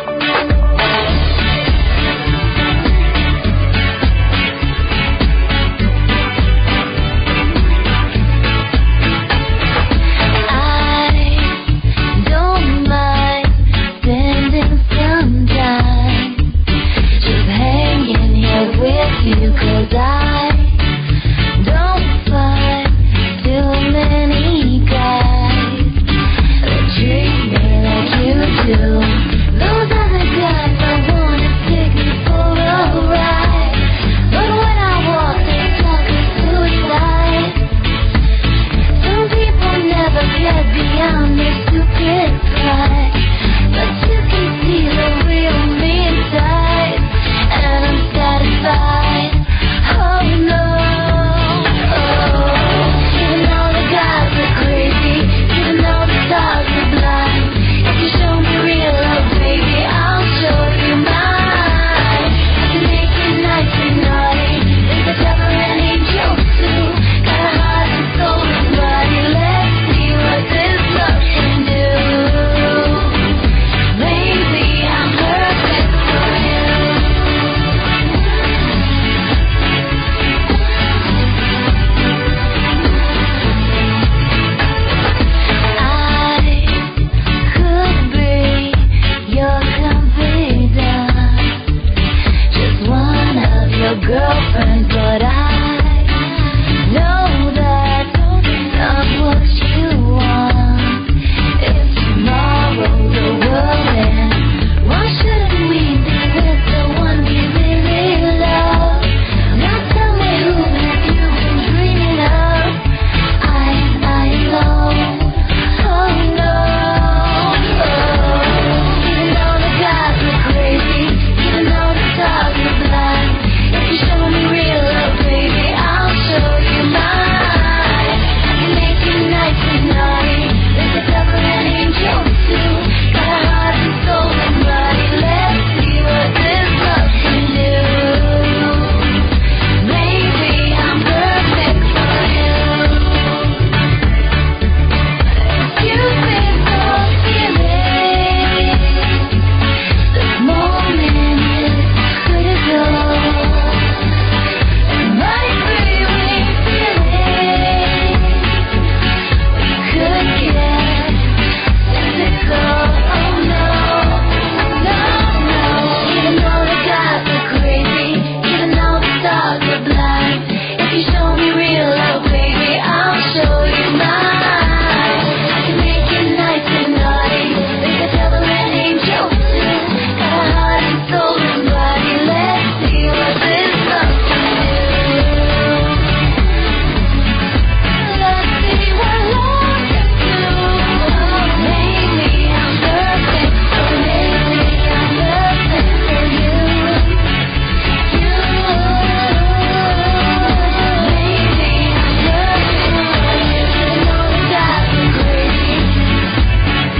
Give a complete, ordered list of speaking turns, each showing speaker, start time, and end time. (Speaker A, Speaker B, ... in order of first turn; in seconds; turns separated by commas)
Speaker A: 10.4-16.6, Speaker A: 17.2-20.8, Speaker A: 21.6-26.1, Speaker A: 26.6-37.7, Speaker A: 38.9-77.6, Speaker A: 85.7-91.6, Speaker A: 92.5-112.8, Speaker A: 113.4-143.7, Speaker A: 145.3-154.0, Speaker A: 154.8-186.2, Speaker A: 187.9-197.3, Speaker A: 198.0-206.1